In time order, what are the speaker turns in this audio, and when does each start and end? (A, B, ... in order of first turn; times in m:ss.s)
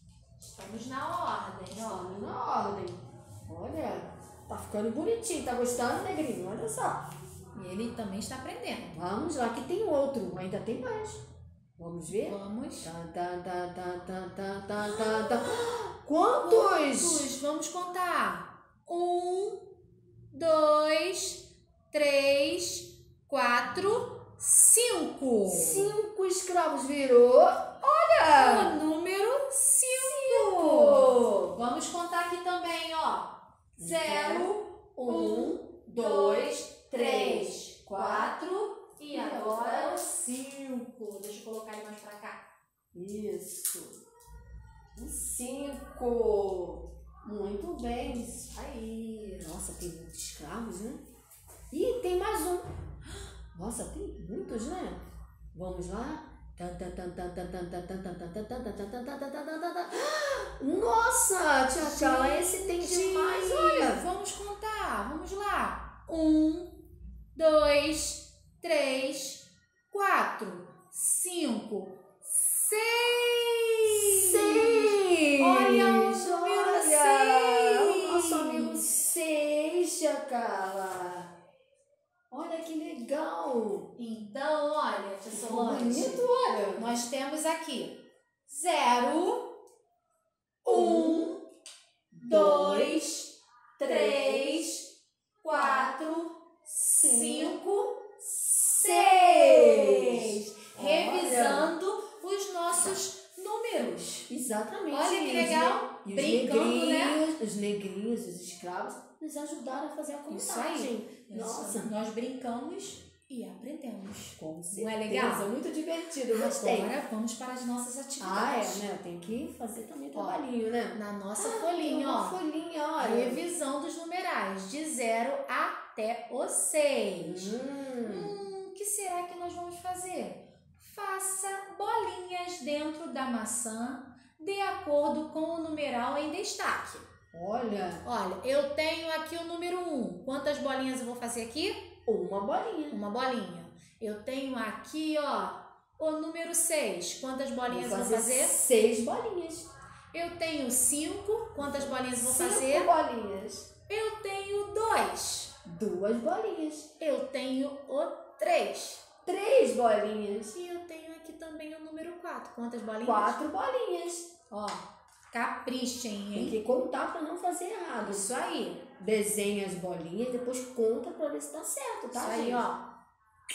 0:00.4-0:02.1 A
0:01.7-0:07.0 B
0:07.5-0:09.0 A
0:08.9-0:11.2 B
0:11.8-0:17.3 B
0:12.1-0:12.9 A
0:14.8-0:15.7 A
0:16.3-0:19.7 A
0:20.3-0:25.9 A
0:25.5-0:28.7 B
0:28.2-0:42.4 A
0:29.9-0:31.5 B
0:33.8-0:38.3 B
0:39.1-0:40.0 B
0:42.9-0:44.0 B
0:45.0-0:51.0 B
0:51.7-0:52.6 B
0:53.5-0:55.0 B
0:55.5-1:04.0 B
1:01.8-1:18.9 A
1:13.9-1:21.3 B
1:22.3-1:23.9 B
1:24.0-1:29.6 A
1:25.3-1:26.9 B
1:30.6-1:31.4 A
1:30.6-1:31.4 B
1:32.1-1:33.0 B
1:32.2-1:44.3 A
1:33.8-1:34.7 B
1:35.5-1:35.9 B
1:36.9-1:37.6 B
1:38.7-1:41.7 B
1:44.3-1:51.9 B
1:44.9-1:47.2 A
1:50.3-1:55.5 A
1:54.4-1:57.0 B
1:56.3-1:58.9 A
1:58.2-2:03.4 B
2:00.1-2:00.4 A
2:00.9-2:02.4 A
2:03.0-2:17.1 A
2:07.2-2:08.4 B
2:17.3-2:18.0 B
2:18.0-2:21.9 A
2:22.1-2:23.0 B
2:22.9-2:28.5 A
2:27.7-2:29.7 B
2:30.1-2:32.9 A
2:31.6-2:33.7 B
2:33.9-2:35.5 A
2:35.6-2:36.9 B
2:37.0-2:39.0 A
2:39.2-2:40.6 B
2:40.5-2:43.4 A
2:43.0-2:44.3 B
2:44.5-2:46.6 A
2:46.3-2:48.3 B
2:48.0-2:48.8 A
2:49.0-2:52.6 B
2:52.1-2:52.8 A